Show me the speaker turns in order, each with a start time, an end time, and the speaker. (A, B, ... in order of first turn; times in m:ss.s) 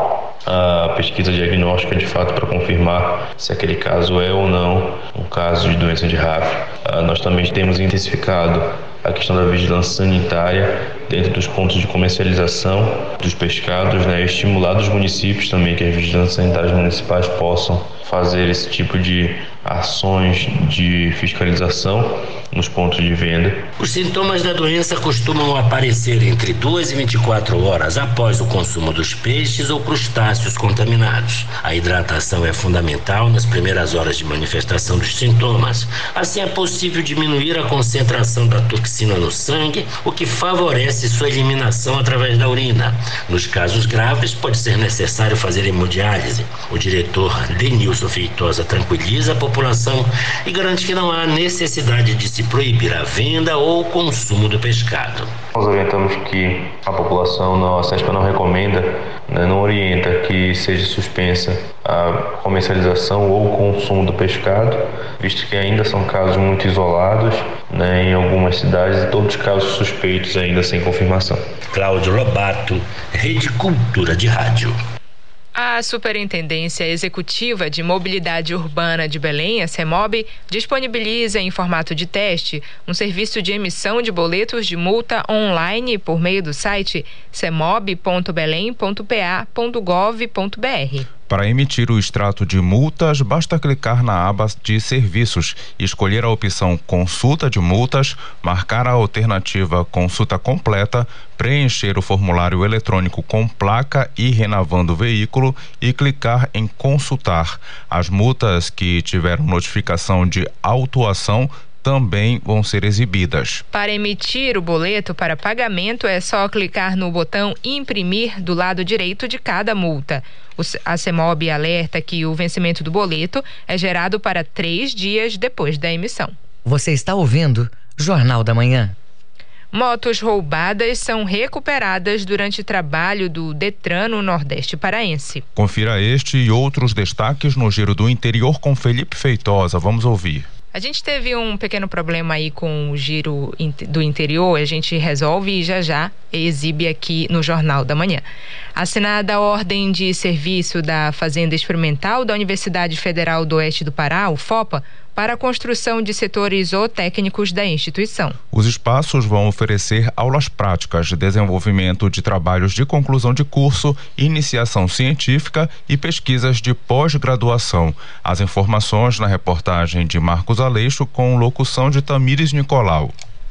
0:00.4-0:23.7 A
0:23.8-0:55.3 B
0:55.5-1:11.4 A
1:11.7-1:14.8 B
1:15.6-1:31.1 C
1:31.3-1:53.6 D
1:53.7-2:06.3 C
2:06.6-2:08.9 E
2:09.7-2:15.4 C
2:15.6-2:20.5 D
2:20.7-2:38.4 C
2:38.5-2:53.1 D